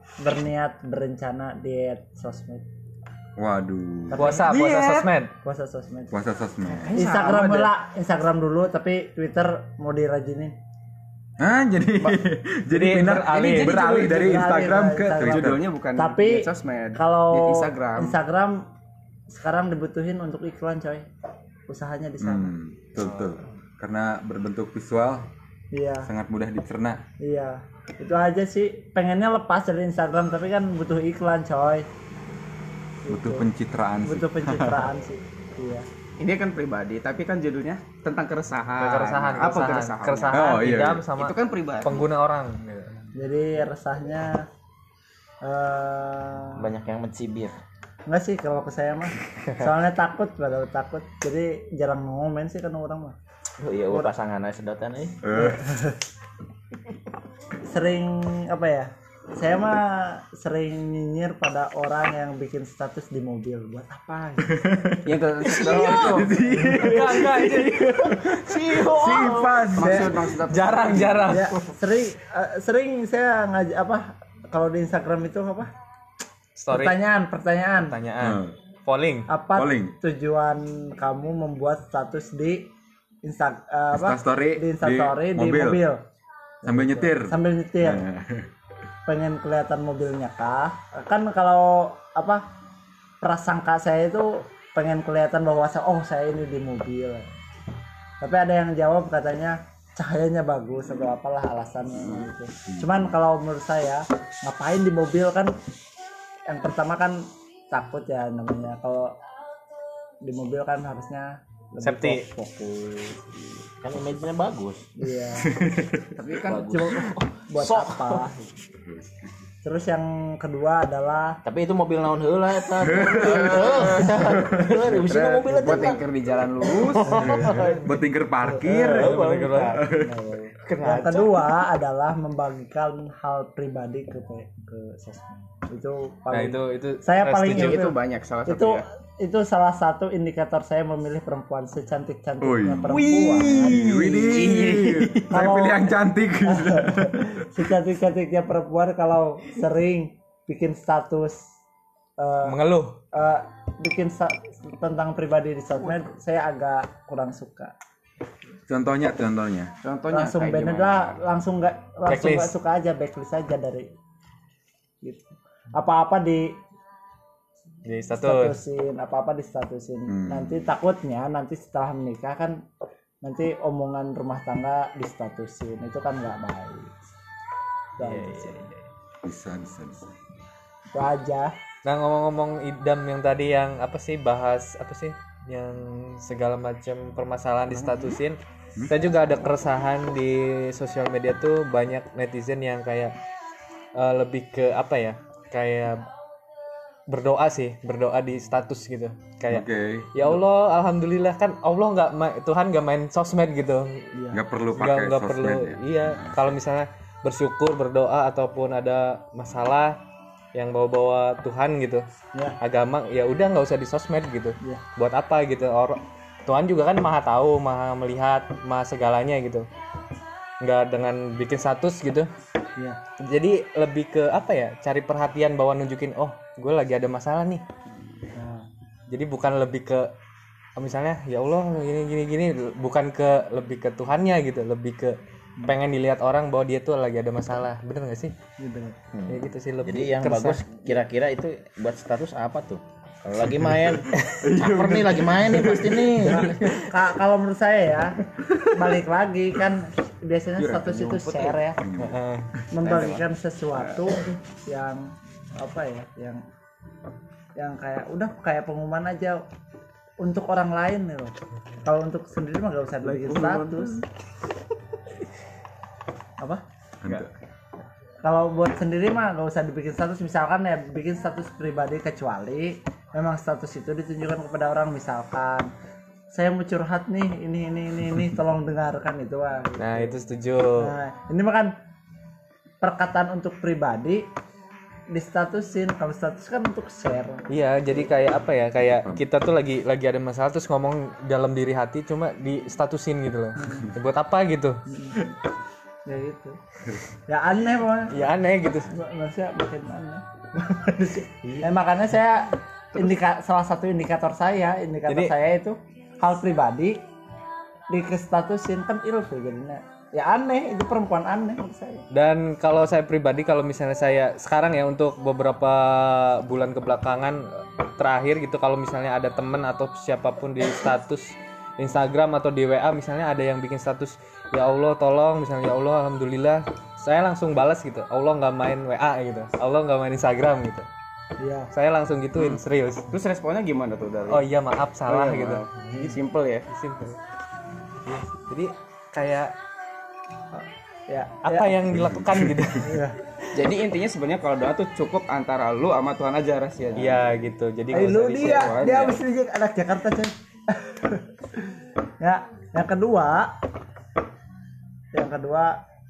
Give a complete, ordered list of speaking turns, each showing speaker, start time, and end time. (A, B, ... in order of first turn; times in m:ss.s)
0:00.2-0:02.6 A
0:03.4-0:04.4 B
0:04.1-0:04.5 A
0:04.2-0:05.3 C
0:04.4-0:05.1 D
0:05.4-0:06.2 A
0:06.1-0:07.0 B
0:06.8-0:07.7 D
0:06.9-0:10.6 A
0:11.4-0:15.6 B
0:12.7-0:13.8 C
0:13.3-0:18.2 D
0:13.9-0:18.6 A
0:19.3-0:21.0 A
0:21.7-0:22.5 A
0:22.2-0:25.3 B
0:25.7-0:26.1 A
0:26.0-0:27.0 B
0:27.2-0:31.9 A
0:33.0-0:33.4 A
0:33.1-0:34.9 B
0:34.0-0:35.8 A
0:36.2-0:40.5 D
0:38.8-0:43.0 C
0:40.3-0:41.1 B
0:41.1-0:42.0 D
0:43.1-0:44.4 A
0:45.4-0:46.6 A
0:46.6-0:47.6 E
0:48.1-0:53.2 A
0:53.6-0:55.2 E
0:55.2-0:55.7 B
0:55.3-0:55.9 A
0:57.6-1:04.6 A
1:04.5-1:10.3 B
1:05.0-1:11.7 D
1:05.8-1:08.3 C
1:08.7-1:09.6 E
1:09.6-1:10.0 A
1:10.5-1:11.5 C
1:11.2-1:15.7 A
1:16.6-1:17.0 C
1:16.7-1:18.0 A
1:17.8-1:19.3 C
1:18.2-1:18.5 B
1:19.3-1:22.7 A
1:19.5-1:19.9 B
1:23.2-1:26.0 A
1:23.9-1:25.8 B
1:26.6-1:28.0 A
1:26.6-1:28.5 B
1:29.0-1:32.4 A
1:33.2-1:37.3 A
1:38.2-1:45.5 A
1:42.7-1:43.1 B
1:46.5-1:49.1 A
1:50.2-1:53.4 A
1:51.8-1:52.2 C
1:53.8-1:54.9 E
1:55.0-1:55.5 A
1:55.4-1:56.2 B
1:56.2-1:56.7 D
1:56.4-1:58.3 E
1:56.6-1:58.5 A
1:58.8-1:59.3 B
1:59.6-2:01.4 A
2:01.4-2:06.0 E
2:02.8-2:04.7 B
2:04.9-2:07.4 D
2:06.6-2:07.9 E
2:07.1-2:07.8 A
2:07.2-2:10.3 B
2:08.4-2:09.1 A
2:08.7-2:09.8 E
2:09.0-2:09.8 C
2:09.8-2:23.8 A
2:10.6-2:11.5 E
2:16.3-2:17.8 C
2:17.4-2:18.8 D
2:22.4-2:27.6 B
2:22.9-2:25.3 D
2:25.3-2:25.9 A
2:26.4-2:31.5 A
2:32.2-2:32.6 A
2:32.4-2:33.0 C
2:33.1-2:37.7 A
2:38.7-2:39.7 B
2:39.8-2:41.2 D
2:40.1-2:43.9 A
2:42.1-2:42.5 C
2:45.0-2:46.5 A
2:47.8-2:48.6 C
2:48.2-2:52.6 A
2:50.1-2:50.7 B
2:53.2-2:56.9 A
2:58.0-2:58.7 A
2:58.0-2:58.8 C
2:59.2-3:00.1 B
3:00.9-3:01.5 A
3:01.8-3:13.1 C
3:14.0-3:16.0 C
3:17.1-3:24.1 C
3:19.5-3:20.4 B
3:24.1-3:24.4 A
3:24.3-3:26.5 B
3:24.8-3:30.0 C
3:30.5-3:32.0 C
3:32.6-3:39.7 C
3:40.6-3:42.3 C
3:43.2-3:47.6 C
3:48.3-3:48.7 A
3:49.1-3:50.1 C
3:50.8-3:58.3 C
3:58.6-3:59.0 A
3:59.1-4:06.6 E
3:59.3-4:00.8 C
4:03.6-4:06.7 B
4:06.2-4:08.2 A
4:08.7-4:11.8 A
4:10.6-4:11.1 B
4:11.8-4:12.1 B
4:12.0-4:12.4 C
4:12.7-4:16.4 A
4:12.8-4:14.4 D
4:17.6-4:19.4 A
4:20.2-4:24.0 A
4:23.0-4:24.1 D
4:27.0-4:27.3 B
4:28.2-4:35.7 A
4:36.3-4:41.7 A
4:39.8-4:40.9 C
4:42.8-4:44.2 A
4:45.1-4:47.4 A
4:47.5-4:54.8 C
4:48.9-4:49.2 B
4:53.6-4:53.9 A
4:54.9-4:55.3 A
4:56.1-4:56.6 A
4:57.3-4:58.1 A
4:58.1-4:58.9 C
4:58.9-5:07.0 A
5:05.1-5:05.3 C
5:07.9-5:12.0 A
5:12.1-5:30.8 C
5:31.4-5:31.7 A
5:31.7-5:33.0 C
5:33.1-5:34.5 D
5:34.3-5:36.2 C
5:35.0-5:36.6 D
5:36.7-5:37.2 C
5:38.0-5:39.5 C
5:40.5-5:41.8 A
5:41.4-5:43.0 C
5:41.9-5:42.7 B
5:42.8-5:43.2 A
5:43.5-5:47.3 D
5:47.0-5:48.7 C
5:47.9-5:51.2 A
5:48.3-5:49.2 D
5:52.2-5:53.6 A
5:55.1-5:55.8 A